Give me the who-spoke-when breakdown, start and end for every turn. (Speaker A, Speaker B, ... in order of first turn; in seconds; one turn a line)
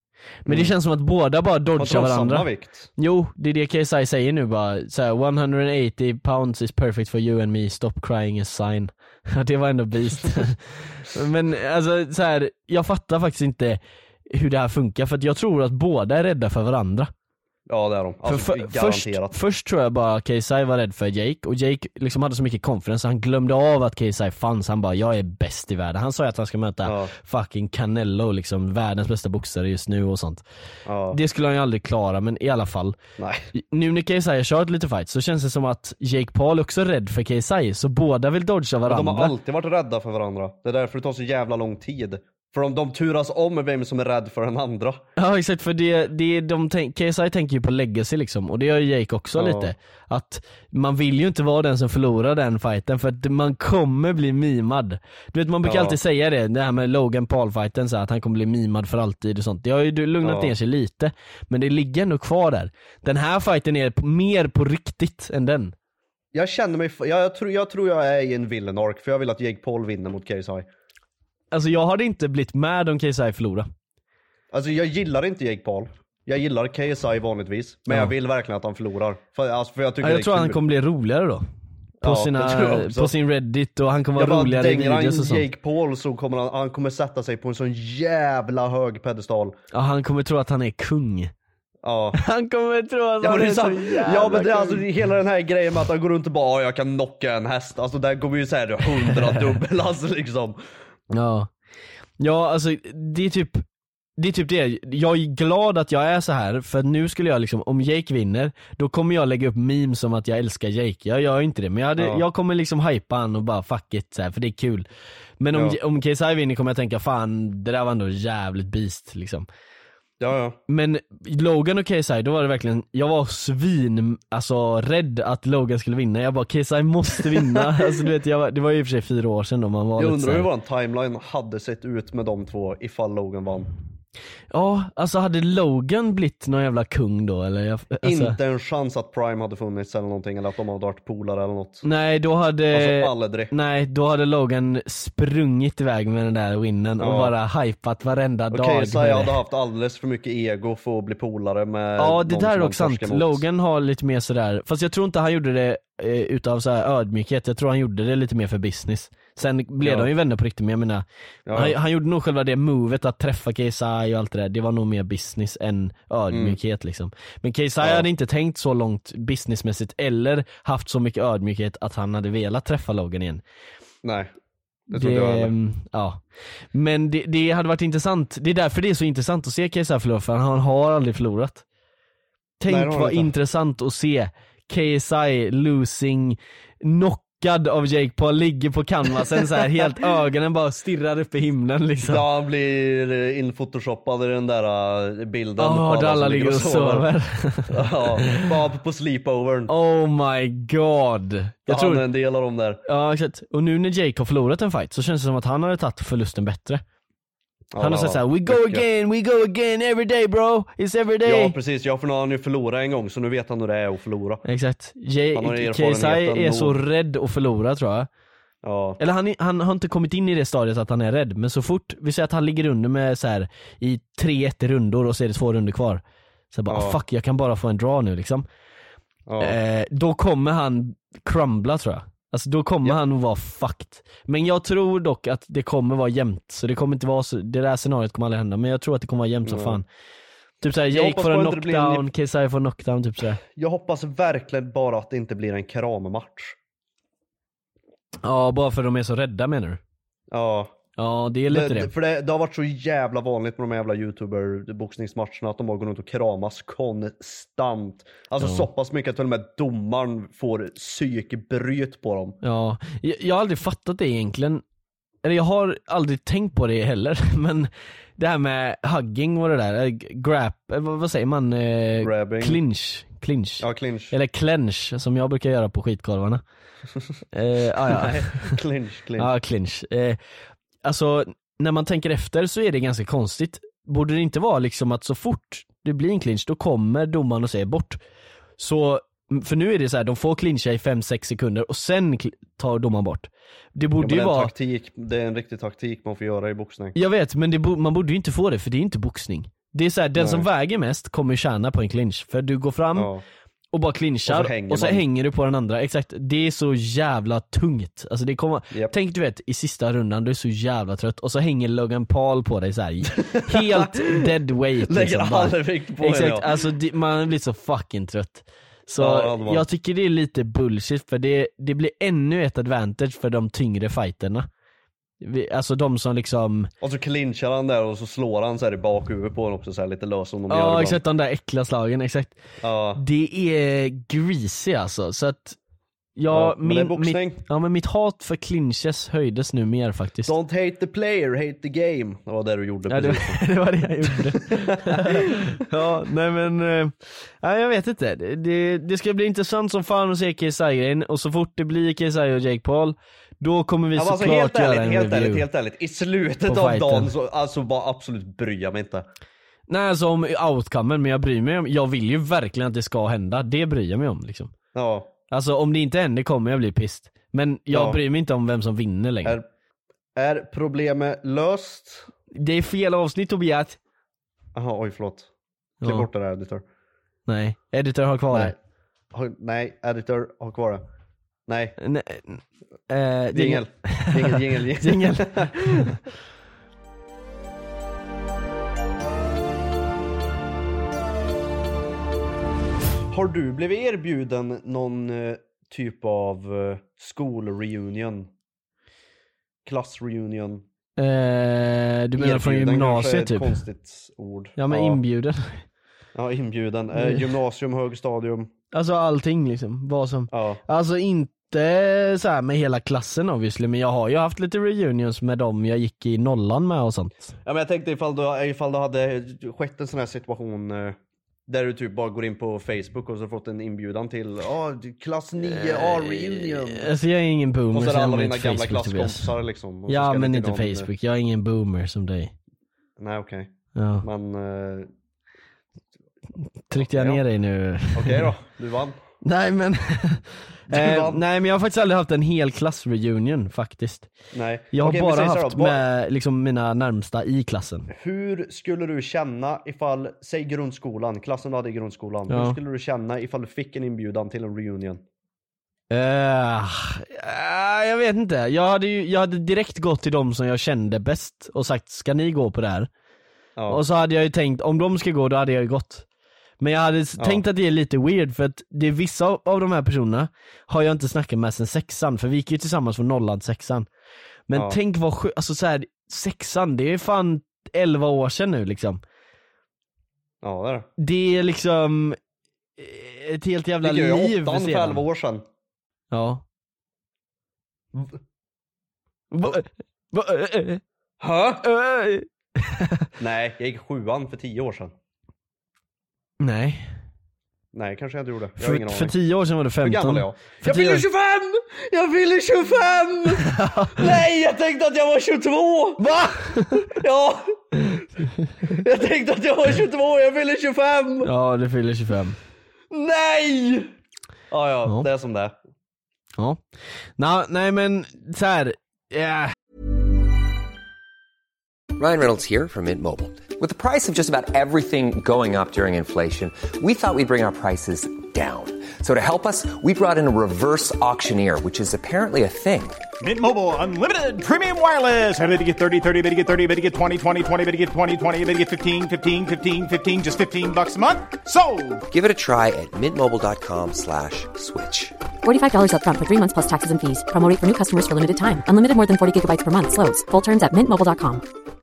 Speaker A: 0.4-13.8
Speaker B: 0.5-0.7
Speaker B: 1.8-2.9
Speaker A: 14.3-17.1
Speaker B: 17.7-19.4
Speaker A: 18.3-30.4
Speaker B: 26.8-27.1
Speaker B: 30.9-31.2
Speaker A: 31.1-33.0
Speaker B: 33.2-33.5
Speaker A: 33.5-39.3
Speaker B: 38.9-45.0
Speaker A: 45.2-65.7
Speaker B: 49.4-49.7
Speaker B: 55.6-56.0
Speaker B: 60.2-60.5
Speaker B: 66.3-70.7
Speaker A: 71.5-73.7
Speaker B: 74.5-80.6
Speaker A: 80.0-81.4
Speaker B: 82.0-83.1
Speaker A: 82.0-85.5
Speaker B: 84.2-89.6
Speaker A: 89.7-91.3
Speaker B: 91.8-92.2
Speaker A: 92.2-94.9
Speaker B: 93.2-100.6
Speaker A: 101.1-101.5
Speaker A: 102.2-103.6
Speaker A: 104.2-114.9
Speaker B: 112.0-112.2
Speaker A: 115.4-119.5
Speaker B: 115.5-115.8
Speaker B: 120.2-120.6
Speaker A: 120.7-130.5
Speaker B: 127.3-128.0
Speaker B: 130.0-133.7
Speaker A: 134.5-138.4
Speaker B: 138.0-141.8
Speaker A: 141.8-149.3
Speaker B: 142.7-143.5
Speaker B: 147.0-147.3
Speaker B: 148.5-153.4
Speaker A: 152.0-173.4
Speaker B: 159.8-160.1
Speaker B: 161.5-161.8
Speaker B: 166.3-166.6
Speaker B: 167.8-168.1
Speaker B: 174.0-174.3
Speaker B: 174.9-175.5
Speaker A: 174.9-176.2
Speaker A: 176.7-181.6
Speaker A: 182.6-192.2
Speaker B: 182.7-183.3
Speaker B: 192.0-197.1
Speaker A: 195.6-198.4
Speaker B: 197.7-199.7
Speaker A: 199.7-202.1
Speaker B: 201.7-202.8
Speaker A: 202.9-206.8
Speaker B: 207.7-208.8
Speaker A: 207.8-211.6
Speaker B: 211.2-214.4
Speaker A: 214.4-218.1
Speaker B: 215.4-216.8
Speaker B: 218.6-219.0
Speaker A: 219.0-228.5
Speaker B: 226.7-227.0
Speaker B: 229.3-229.6
Speaker A: 229.4-239.8
Speaker B: 239.4-239.8
Speaker A: 240.6-243.4
Speaker B: 240.9-242.1
Speaker B: 243.6-246.6
Speaker A: 248.2-249.8
Speaker B: 250.3-250.8
Speaker A: 251.0-251.9
Speaker B: 251.5-262.4
Speaker A: 258.4-258.7
Speaker A: 262.4-264.6
Speaker A: 265.2-276.4
Speaker B: 272.0-272.6
Speaker B: 273.6-274.1
Speaker A: 277.3-278.5
Speaker B: 277.9-279.3
Speaker A: 279.2-280.2
Speaker A: 280.8-288.0
Speaker A: 288.6-294.5
Speaker B: 294.0-296.9
Speaker A: 296.9-303.1
Speaker B: 300.2-300.5
Speaker B: 303.0-303.2
Speaker A: 303.7-324.5
Speaker B: 304.3-305.0
Speaker B: 313.1-314.3
Speaker B: 314.9-316.5
Speaker B: 319.0-319.7
Speaker A: 325.2-326.7
Speaker B: 326.8-331.0
Speaker A: 330.5-332.4
Speaker B: 332.6-333.0
Speaker A: 333.0-335.6
Speaker A: 336.2-340.3
Speaker B: 336.3-337.4
Speaker B: 340.3-343.5
Speaker A: 342.9-355.5
Speaker B: 344.1-345.6
Speaker B: 353.9-359.1
Speaker A: 356.5-357.1
Speaker A: 359.7-364.5
Speaker B: 364.7-365.1
Speaker A: 365.3-369.4
Speaker B: 367.7-368.0
Speaker B: 370.2-372.1
Speaker A: 372.4-373.8
Speaker B: 374.6-375.3
Speaker A: 375.8-376.1
Speaker B: 375.8-376.6
Speaker A: 377.3-378.5
Speaker B: 379.1-380.8
Speaker B: 381.5-381.8
Speaker A: 381.8-386.0
Speaker B: 383.3-385.9
Speaker B: 393.1-398.3
Speaker B: 399.6-400.6
Speaker A: 401.0-403.6
Speaker B: 402.2-405.0
Speaker A: 404.6-405.6
Speaker B: 406.1-408.5
Speaker A: 406.9-407.3
Speaker A: 408.7-417.3
Speaker B: 410.3-410.6
Speaker B: 417.4-421.0
Speaker B: 421.5-426.9
Speaker A: 425.4-429.3
Speaker B: 427.7-430.9
Speaker A: 429.9-432.3
Speaker B: 433.0-433.5
Speaker A: 433.8-434.1
Speaker B: 434.0-434.9
Speaker A: 436.7-438.3
Speaker B: 436.8-437.2
Speaker B: 437.9-439.0
Speaker A: 439.2-444.1
Speaker B: 440.7-441.2
Speaker B: 444.3-445.8
Speaker A: 444.7-447.9
Speaker B: 447.9-455.0
Speaker A: 452.3-452.6
Speaker A: 455.9-462.9
Speaker B: 463.6-463.8
Speaker A: 463.7-466.1
Speaker A: 466.6-473.9
Speaker A: 474.5-479.0
Speaker B: 480.4-480.9
Speaker A: 481.0-482.2
Speaker A: 482.8-485.0
Speaker B: 483.8-485.4
Speaker A: 486.1-486.4
Speaker A: 489.3-490.8
Speaker B: 491.2-491.6
Speaker A: 491.6-493.1
Speaker B: 493.2-494.9
Speaker A: 496.4-496.9
Speaker B: 497.7-499.2
Speaker A: 498.6-501.0
Speaker B: 499.8-506.1
Speaker A: 503.4-504.0
Speaker A: 506.0-506.8
Speaker B: 506.7-508.1
Speaker B: 508.6-511.3
Speaker A: 511.2-512.4
Speaker B: 512.9-513.9
Speaker B: 514.5-515.5
Speaker A: 517.2-519.5
Speaker C: 522.0-533.0
Speaker D: 533.2-542.0
Speaker C: 542.1-545.1
Speaker E: 545.4-551.4